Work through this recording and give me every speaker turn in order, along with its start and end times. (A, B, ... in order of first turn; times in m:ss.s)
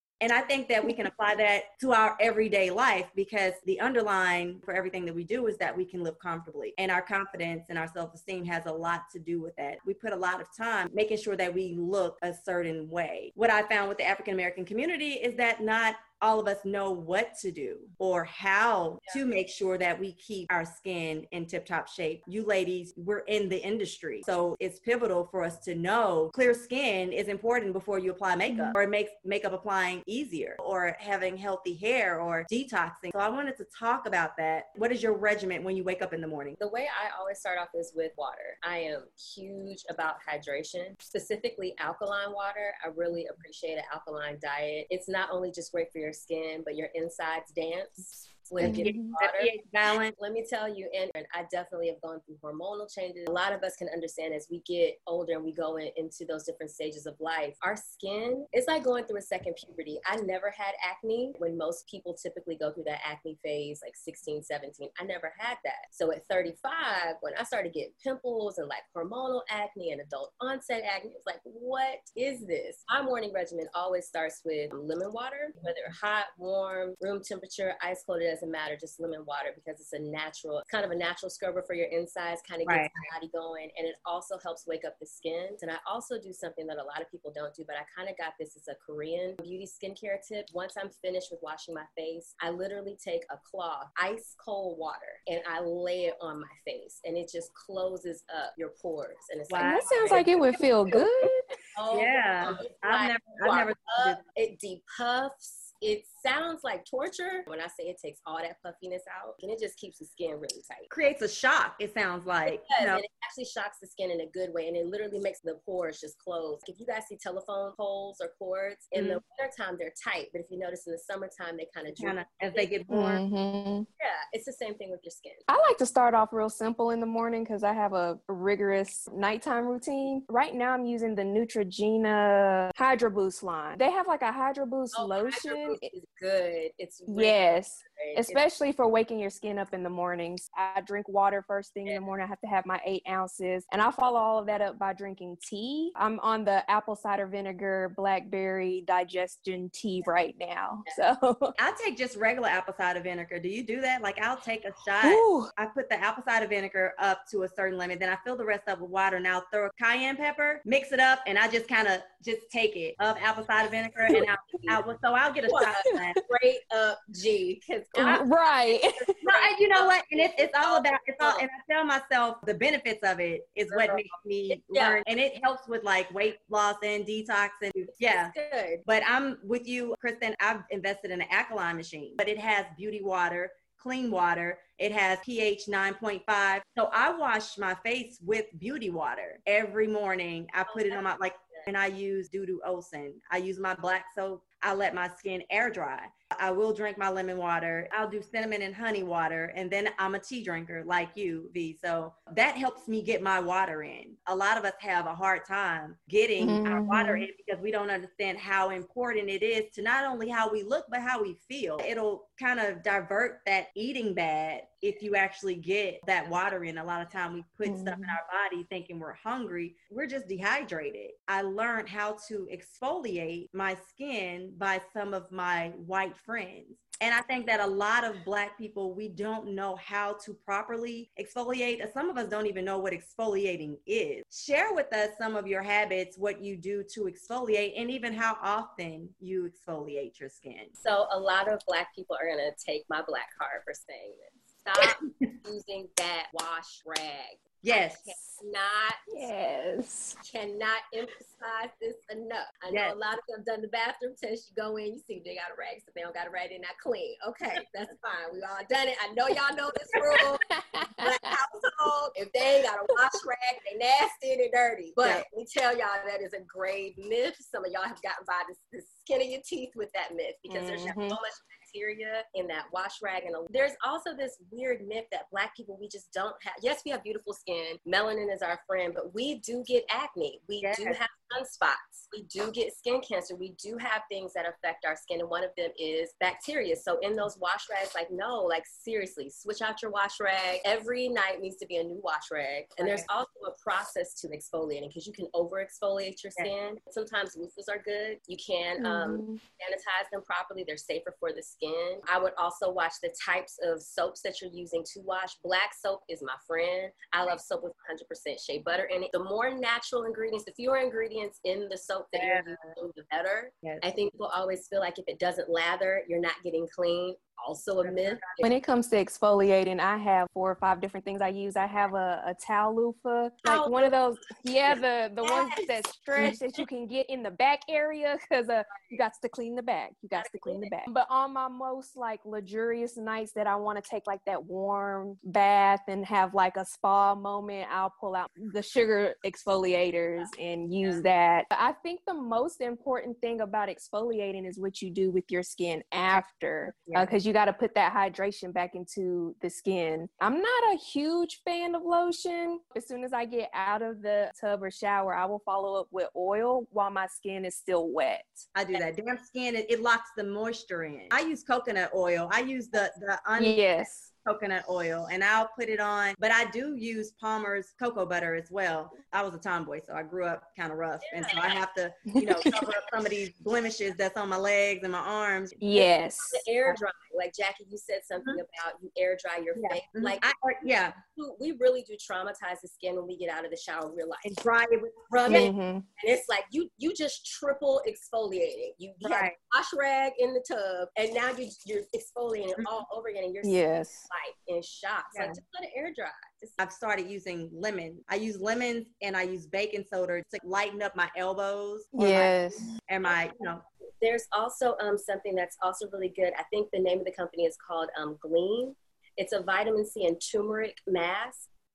0:00.2-0:36.6 A
0:28.5-0:28.8 B
0:36.6-1:40.4 C
0:48.6-0:50.2 A
0:48.6-0:49.2 B
1:22.6-1:22.9 A
1:39.5-1:40.4 A
1:39.6-1:41.4 B
1:41.8-1:50.9 C
1:41.9-1:44.2 A
1:50.9-1:53.0 A
1:52.5-2:02.7 C
1:59.0-1:59.2 A
2:02.0-2:03.2 A
2:02.9-2:03.9 B
2:04.0-2:05.4 C
2:05.5-2:15.8 B
2:14.9-2:18.4 C
2:17.1-2:31.6 B
2:31.6-2:46.2 A
2:35.0-2:35.5 B
2:44.5-2:44.8 C
2:45.4-2:51.5 C
2:48.0-2:49.1 B
2:49.2-2:58.4 A
2:53.7-2:55.0 C
2:57.9-2:58.8 C
2:58.9-4:00.7 A
3:10.7-3:11.7 C
3:26.4-3:27.3 B
3:37.6-3:38.2 B
4:00.8-4:09.3 C
4:04.8-4:05.3 A
4:07.6-4:08.1 A
4:09.1-4:10.2 B
4:10.2-5:18.5 C
4:12.7-4:13.0 A
4:20.1-4:21.4 B
4:25.0-4:25.3 A
4:30.5-4:31.2 B
4:40.6-4:41.0 A
4:52.8-4:53.1 A
4:58.8-4:59.4 B
5:12.1-5:12.7 A
5:17.8-5:18.4 A
5:18.4-5:58.5 B
5:23.4-5:24.0 C
5:24.7-5:26.6 C
5:30.2-5:30.7 C
5:46.9-5:47.1 A
5:58.6-6:15.6 A
6:03.4-6:04.1 B
6:11.0-6:11.6 C
6:12.1-6:12.5 B
6:12.5-6:12.9 C
6:15.6-6:16.4 B
6:15.7-6:20.3 C
6:19.6-6:21.0 A
6:21.0-6:24.4 C
6:24.2-6:25.5 A
6:25.3-6:36.6 C
6:25.3-6:25.8 B
6:29.0-6:29.4 A
6:33.4-6:34.1 B
6:35.1-6:35.4 A
6:36.6-6:43.6 A
6:42.0-6:42.7 B
6:44.0-6:51.5 C